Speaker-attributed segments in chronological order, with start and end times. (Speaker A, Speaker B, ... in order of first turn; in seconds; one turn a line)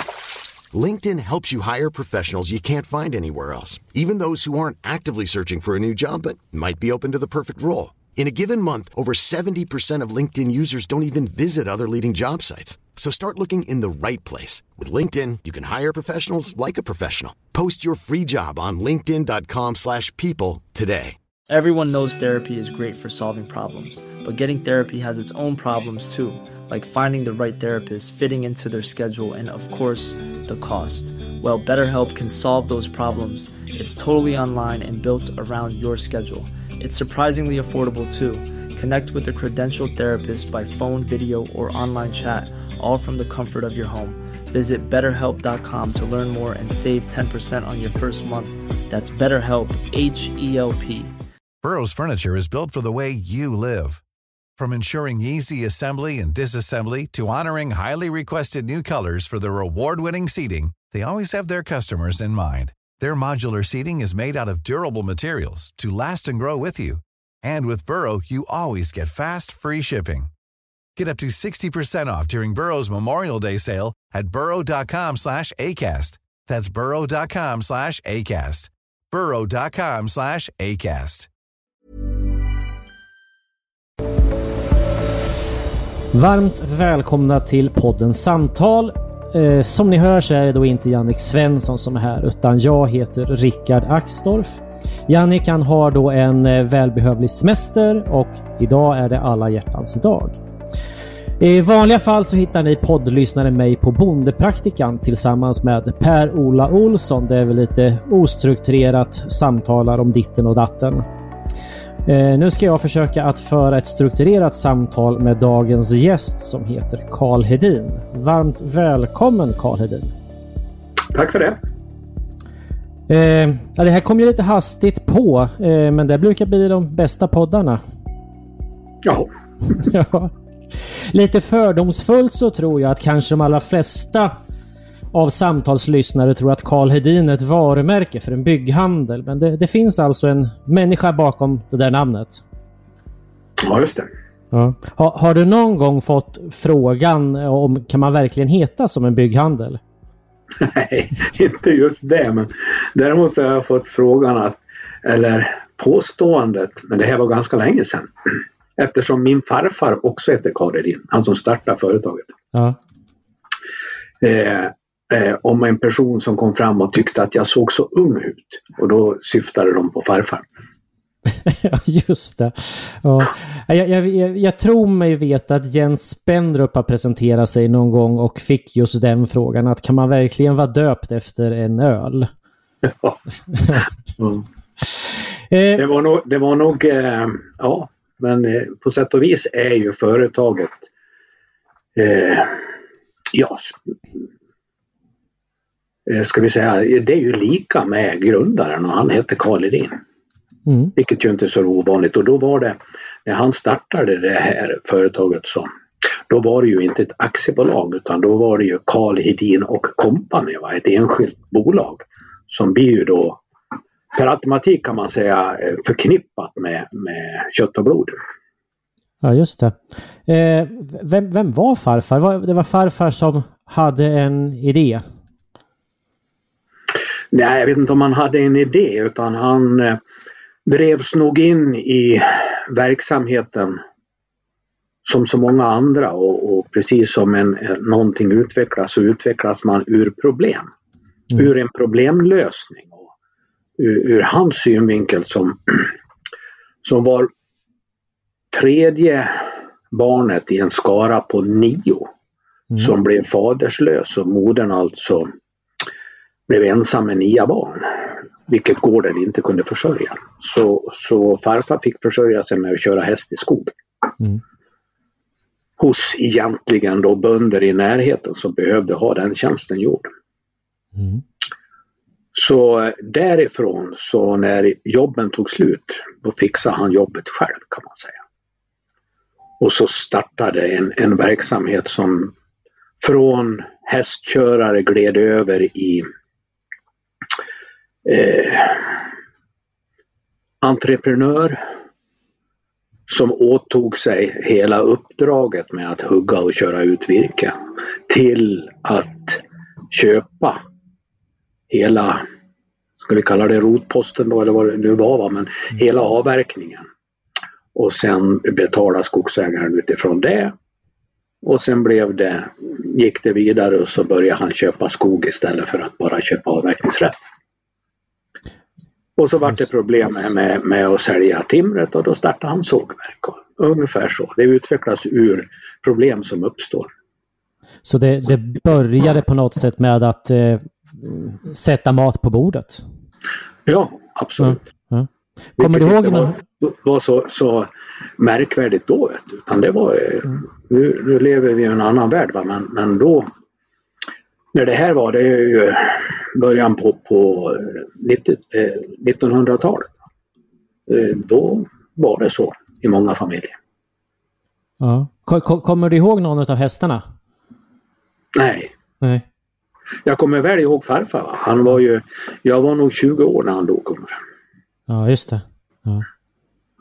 Speaker A: 0.7-21.2
Speaker B: 21.5-51.1
Speaker C: 51.6-54.0
Speaker C: 54.6-70.3
Speaker C: 71.0-81.3
Speaker D: 86.1-100.4
Speaker D: 101.4-111.0
Speaker D: 112.1-120.1
Speaker E: 121.1-121.6
Speaker D: 123.1-127.8
Speaker E: 129.0-129.3
Speaker D: 129.7-134.4
Speaker D: 135.1-142.4
Speaker E: 143.6-144.1
Speaker D: 144.5-149.8
Speaker E: 150.6-162.3
Speaker E: 164.2-170.4
Speaker D: 171.4-182.3
Speaker E: 182.8-183.2
Speaker D: 185.5-185.8
Speaker E: 185.8-190.9
Speaker E: 192.0-192.7
Speaker E: 193.3-193.9
Speaker E: 196.1-200.0
Speaker D: 200.7-200.9
Speaker E: 200.9-205.7
Speaker E: 206.3-213.4
Speaker E: 214.1-218.2
Speaker D: 219.2-225.0
Speaker E: 227.3-230.0
Speaker E: 230.7-233.8
Speaker E: 235.1-240.7
Speaker E: 241.3-243.1
Speaker E: 243.8-245.9
Speaker E: 246.8-247.3
Speaker E: 248.5-252.1
Speaker E: 252.8-255.3
Speaker E: 256.5-263.7
Speaker E: 265.8-270.1
Speaker D: 270.9-271.2
Speaker E: 272.3-278.2
Speaker E: 279.6-282.3
Speaker E: 283.0-286.1
Speaker E: 288.1-289.0
Speaker E: 290.6-291.6
Speaker E: 293.1-297.6
Speaker E: 298.1-300.6
Speaker E: 301.7-302.2
Speaker E: 303.0-306.9
Speaker E: 307.8-310.5
Speaker E: 311.4-317.2
Speaker E: 319.2-326.9
Speaker D: 327.9-332.8
Speaker E: 333.7-334.6
Speaker D: 334.4-336.4
Speaker E: 335.6-343.3
Speaker E: 344.5-349.9
Speaker E: 350.9-353.6
Speaker D: 354.8-357.1
Speaker E: 358.3-358.7
Speaker E: 360.1-364.2
Speaker D: 364.9-366.1